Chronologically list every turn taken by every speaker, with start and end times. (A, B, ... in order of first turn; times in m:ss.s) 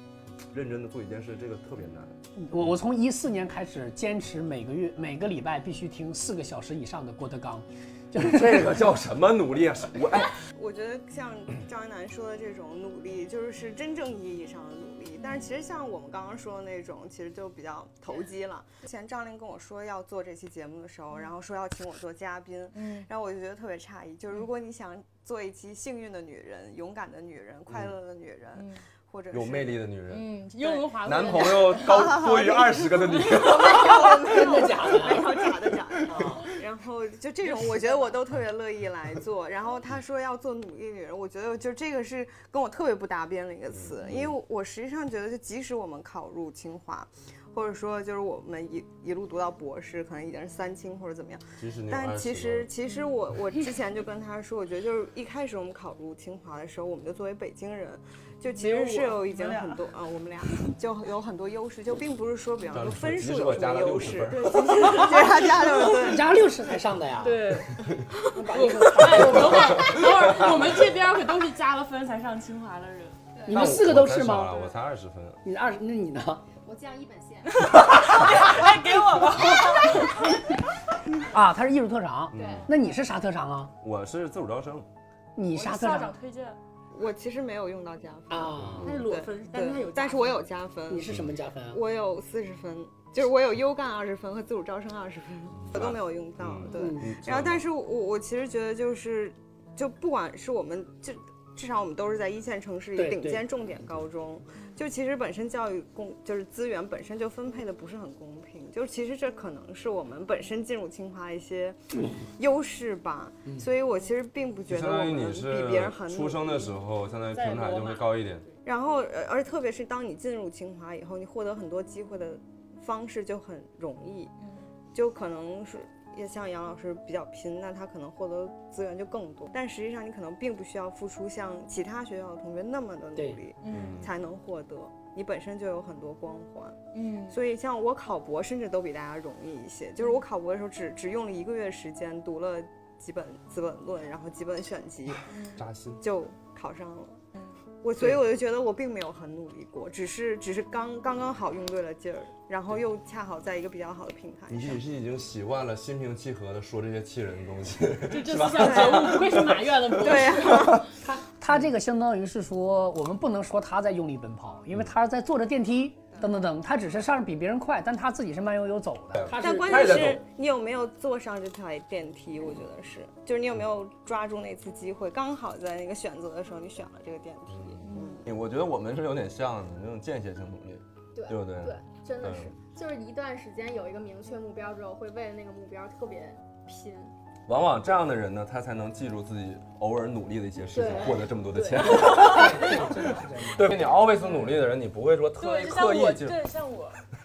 0:00.5-0:02.2 A
0:02.4-0:08.8 B
0:08.2-0:10.3 A
0:10.5-0:29.8 C
0:15.2-0:15.5 D
0:22.7-0:23.1 D
0:28.6-0:28.8 D
0:29.3-0:30.4 A
0:30.1-0:32.3 D
0:31.0-0:34.2 A
0:31.8-1:06.3 C
0:34.3-0:35.3 B
0:37.4-0:38.2 D
0:43.7-0:44.4 A
0:51.6-0:52.7 A
0:58.5-0:59.8 D
1:02.7-1:04.8 A
1:04.3-1:05.8 D
1:06.0-1:07.4 B
1:07.2-1:07.8 D
1:08.3-1:09.8 B
1:08.5-1:13.2 D
1:13.4-1:13.7 E
1:13.5-1:14.6 B
1:13.5-1:15.4 A
1:15.4-1:16.4 B
1:16.6-1:17.7 E
1:17.5-1:20.1 D
1:21.3-1:23.7 B
1:22.3-1:22.7 A
1:22.4-1:22.6 E
1:23.8-1:24.9 A
1:25.4-1:26.1 B
1:25.5-1:26.6 D
1:26.9-1:31.2 C
1:28.3-1:28.9 B
1:28.6-1:28.9 A
1:28.8-1:30.4 D
1:30.9-1:31.8 B
1:31.7-1:51.8 C
1:35.7-1:37.6 A
1:36.8-1:37.1 B
1:43.0-1:43.4 B
1:52.4-1:56.8 C
1:54.7-1:58.4 A
1:57.3-1:58.5 D
1:58.6-2:04.3 C
2:04.9-2:25.3 C
2:13.6-2:14.0 D
2:13.7-2:14.1 A
2:16.9-2:17.4 D
2:25.3-2:25.6 D
2:25.6-2:26.0 A
2:26.0-2:27.2 C
2:27.8-2:34.8 C
2:34.5-2:39.6 A
2:38.1-2:40.8 D
2:38.6-2:39.4 C
2:39.9-2:40.9 C
2:41.2-2:50.1 B
2:49.1-2:50.2 A
2:49.3-2:58.3 C
2:57.5-3:02.5 A
2:57.8-2:58.2 D
3:01.2-3:07.1 E
3:07.5-3:16.4 A
3:10.7-3:11.3 E
3:11.8-3:13.9 B
3:15.4-3:17.0 D